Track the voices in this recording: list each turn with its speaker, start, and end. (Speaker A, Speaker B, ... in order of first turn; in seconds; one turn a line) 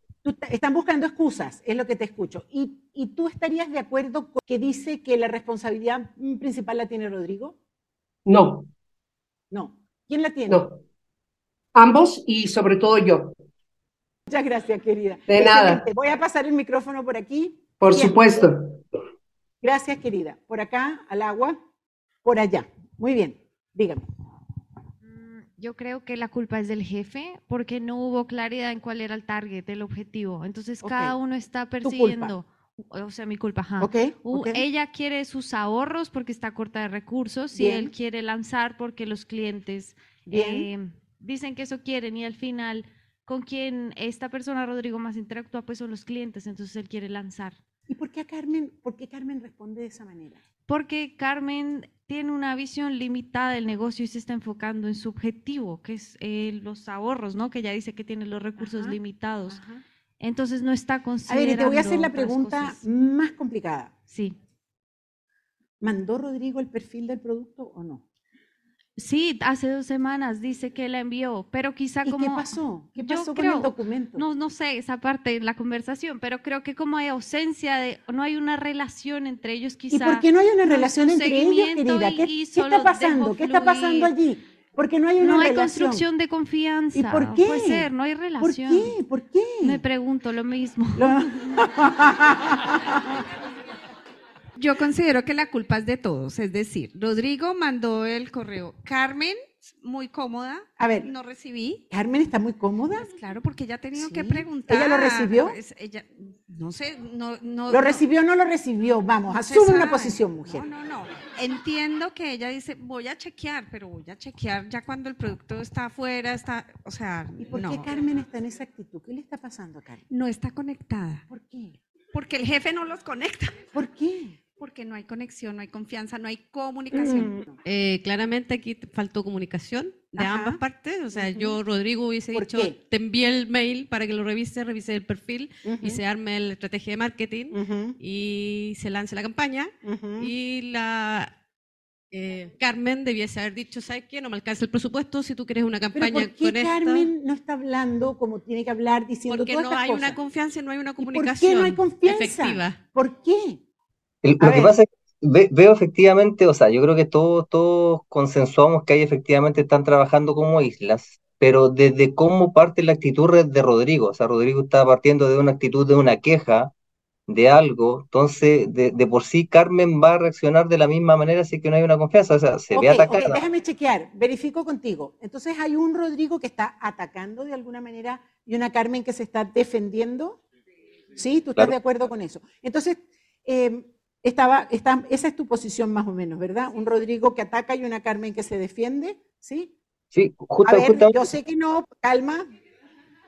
Speaker A: 0.2-7.6
Speaker B: 8.3-8.7
Speaker A: 9.5-10.6
Speaker B: 10.5-10.8
Speaker B: 11.8-13.3
Speaker A: 14.3-18.4
Speaker B: 15.3-15.8
Speaker B: 17.8-18.8
Speaker A: 19.6-21.6
Speaker A: 22.2-24.1
Speaker C: 25.0-47.6
Speaker A: 30.8-31.2
Speaker A: 31.8-32.4
Speaker A: 33.8-34.6
Speaker A: 37.5-37.9
Speaker A: 40.3-40.7
Speaker A: 47.9-50.4
Speaker C: 50.7-59.6
Speaker A: 58.6-59.8
Speaker C: 60.2-62.8
Speaker A: 61.3-64.0
Speaker C: 64.1-64.4
Speaker A: 65.8-68.0
Speaker C: 69.0-84.1
Speaker A: 72.0-74.2
Speaker A: 79.9-86.1
Speaker C: 85.2-89.0
Speaker A: 86.9-89.8
Speaker C: 89.6-91.7
Speaker A: 91.0-93.3
Speaker D: 94.6-101.8
Speaker A: 100.8-101.1
Speaker A: 101.9-103.1
Speaker D: 102.9-108.0
Speaker A: 104.0-105.6
Speaker A: 107.7-110.7
Speaker D: 109.3-117.9
Speaker A: 117.4-120.0
Speaker D: 120.1-121.3
Speaker A: 121.3-121.8
Speaker D: 122.1-123.6
Speaker A: 123.7-124.4
Speaker D: 124.6-127.4
Speaker A: 126.9-127.6
Speaker E: 127.6-141.3
Speaker A: 130.2-130.6
Speaker A: 131.1-131.6
Speaker A: 132.3-132.8
Speaker A: 135.7-136.0
Speaker A: 137.5-138.0
Speaker A: 139.8-140.3
Speaker E: 142.1-147.1
Speaker A: 145.9-150.2
Speaker E: 149.3-152.8
Speaker A: 151.0-153.6
Speaker F: 154.2-166.7
Speaker A: 154.4-154.8
Speaker F: 167.3-173.4
Speaker A: 172.7-180.4
Speaker A: 181.2-189.7
Speaker F: 190.1-191.2
Speaker A: 190.6-192.5